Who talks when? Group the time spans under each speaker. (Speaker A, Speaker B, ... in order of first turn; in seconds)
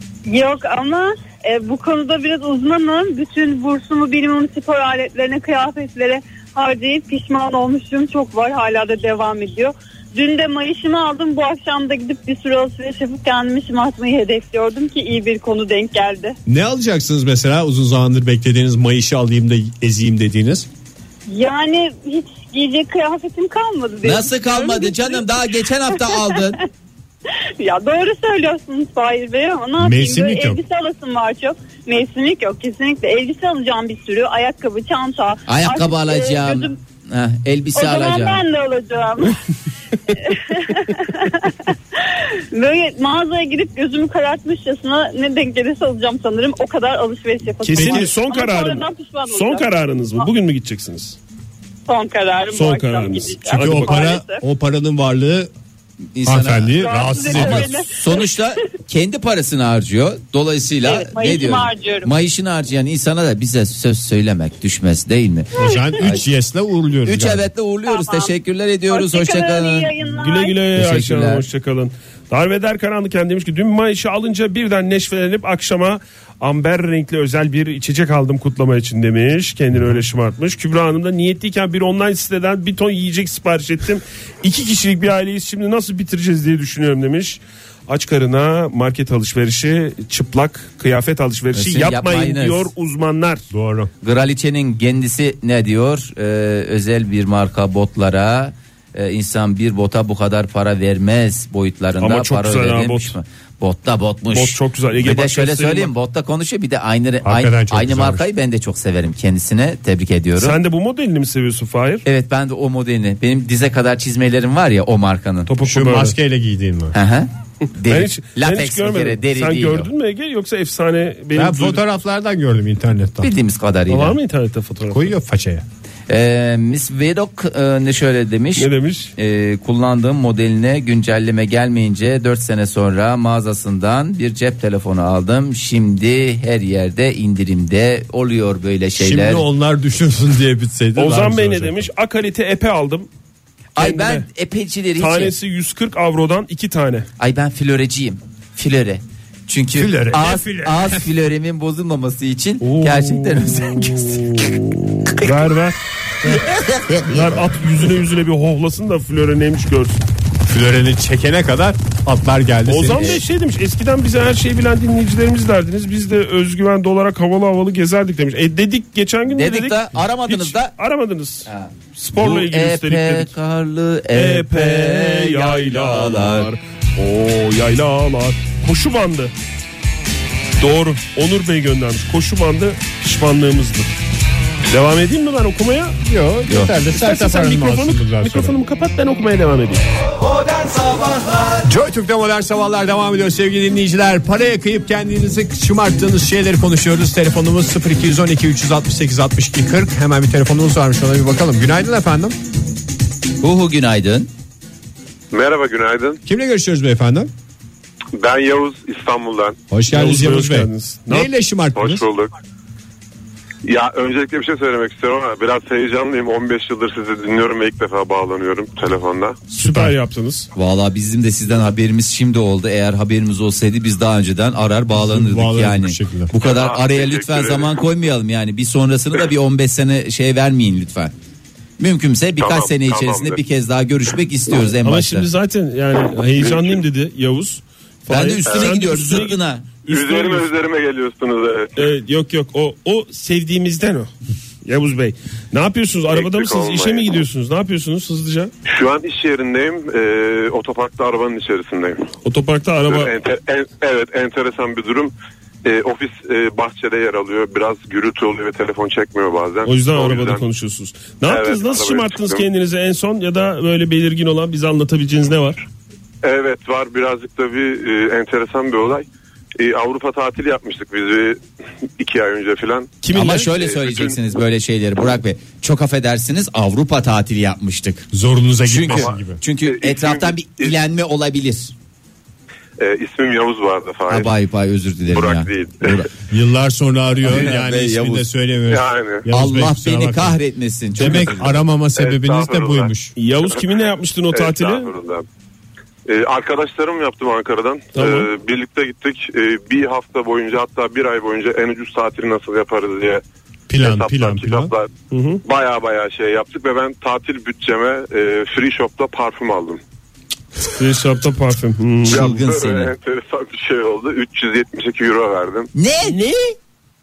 Speaker A: 0.2-16.4, 21.3-25.4, 25.9-26.4, 27.4-36.8, 37.7-39.4, 40.1-49.7, 51.9-54.4, 56.8-58.3, 60.8-62.1, 65.6-65.9, 67.8-68.3, 68.9-70.6
Speaker B: 16.5-20.7, 29.8-30.6, 47.8-48.1, 53.5-55.5, 56.2-57.7, 65.5-67.5, 93.5-93.9, 107.2-108.2, 115.6-116.9, 121.3-123.3, 124.9-125.6, 139.0-141.8, 149.7-150.8, 160.4-163.2, 186.0-188.6, 191.6-202.4, 206.2-207.3, 209.7-212.0, 219.6-219.9, 224.9-226.3, 278.1-279.4, 286.3-290.4, 290.9-293.1, 303.7-304.7
Speaker C: 24.0-26.6, 35.5-38.4, 56.1-66.2, 67.0-69.9, 70.7-71.4, 91.5-92.7, 94.0-110.6, 112.0-115.5, 116.9-119.9, 123.2-124.2, 126.1-139.4, 143.8-145.3, 147.2-154.5, 156.2-157.4, 162.9-163.2, 169.3-170.7, 171.4-176.5, 186.5-186.7, 190.4-191.6, 203.4-204.3, 220.5-231.1, 231.8-235.3, 238.1-239.8, 273.1-278.1, 278.7-281.7, 284.1-286.1, 287.2-288.2, 289.3-291.6, 312.1-312.9, 315.7-316.6
Speaker D: 47.6-51.2, 52.5-54.0, 70.1-93.5, 102.0-103.2, 104.3-105.9, 110.3-112.0, 115.5-116.1, 117.8-121.8, 123.9-125.1, 128.6-129.1, 140.9-143.1, 143.8-144.2, 145.0-147.1, 152.6-156.4, 157.0-160.0, 162.7-173.3, 174.1-179.3, 180.6-183.9, 184.7-185.9, 186.9-189.8, 209.9-211.3, 219.5-220.5, 234.8-240.5, 241.8-244.1, 244.6-248.5, 252.2-253.1, 259.6-265.6, 273.0-273.5, 293.1-294.9, 297.9-298.3, 305.1-305.4, 310.8-312.3
Speaker E: 205.3-206.2, 208.1-209.6, 211.7-212.3, 213.6-219.5, 226.4-227.8, 232.4-233.4, 236.4-236.8, 238.5-238.8, 239.8-241.9, 246.1-247.1, 248.6-252.1, 252.8-255.1, 255.6-260.4, 261.2-262.5, 266.2-269.1, 269.6-271.4, 272.0-274.2, 278.9-280.8, 282.8-284.3, 285.1-286.1, 288.7-289.3, 291.9-292.9, 293.4-295.2, 296.1-303.2, 303.8-304.9, 305.4-309.8, 312.0-315.7